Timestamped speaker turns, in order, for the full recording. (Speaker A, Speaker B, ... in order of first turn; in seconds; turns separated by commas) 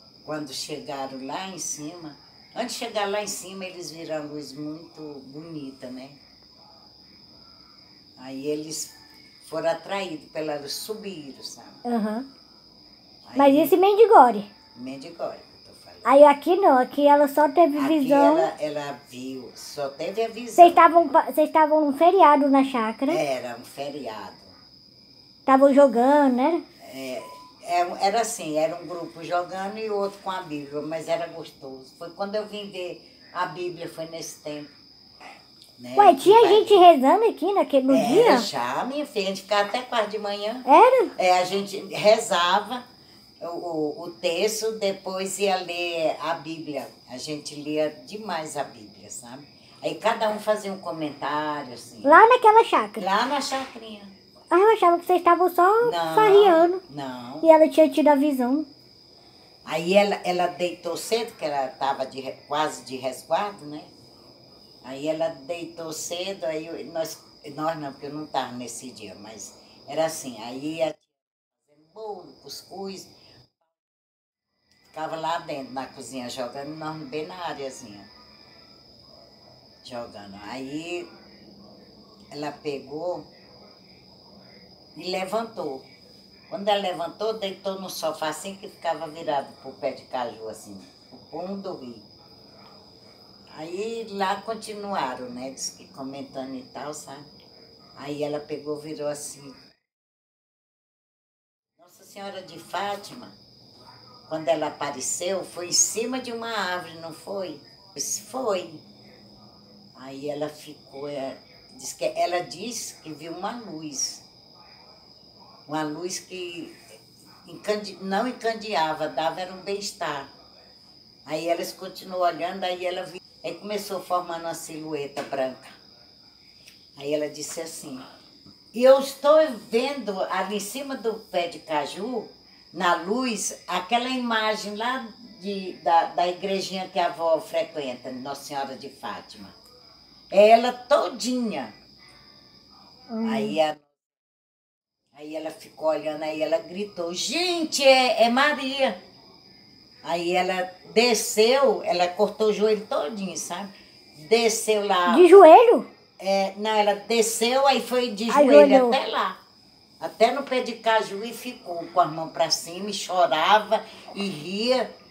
Speaker A: 0.2-6.2, Speaker A: 8.2-11.8, Speaker B: 11.8-12.3, Speaker A: 13.3-13.7, Speaker B: 13.4-14.5, Speaker A: 14.8-16.1, Speaker B: 16.0-18.5, Speaker A: 17.8-20.8, Speaker B: 20.6-23.2, Speaker A: 23.1-24.6, Speaker B: 25.5-26.6, Speaker A: 26.8-34.7, Speaker A: 35.8-36.9, Speaker B: 36.0-38.5, Speaker A: 37.9-40.7, Speaker B: 40.7-41.1, Speaker A: 41.2-42.8, Speaker A: 43.4-52.2, Speaker B: 52.0-53.0, Speaker A: 53.0-54.1, Speaker B: 54.5-56.8, Speaker A: 55.8-57.5, Speaker B: 57.4-58.7, Speaker A: 59.7-63.9, Speaker A: 64.8-73.1, Speaker A: 74.9-78.1, Speaker A: 79.8-81.1, Speaker A: 82.3-83.3, Speaker A: 85.0-85.8, Speaker A: 86.5-92.0, Speaker A: 93.5-97.3, Speaker A: 98.0-99.5, Speaker A: 101.8-103.3, Speaker A: 104.3-108.8, Speaker A: 110.0-114.2, Speaker A: 115.7-116.8, Speaker A: 117.5-120.3, Speaker A: 121.3-125.7, Speaker A: 127.0-128.1, Speaker A: 128.7-139.6, Speaker A: 140.3-141.7, Speaker B: 143.1-143.6, Speaker A: 143.2-143.9, Speaker A: 145.1-149.0, Speaker A: 150.0-155.4, Speaker B: 155.1-155.9, Speaker A: 156.2-159.4, Speaker B: 158.3-159.0, Speaker A: 160.0-164.9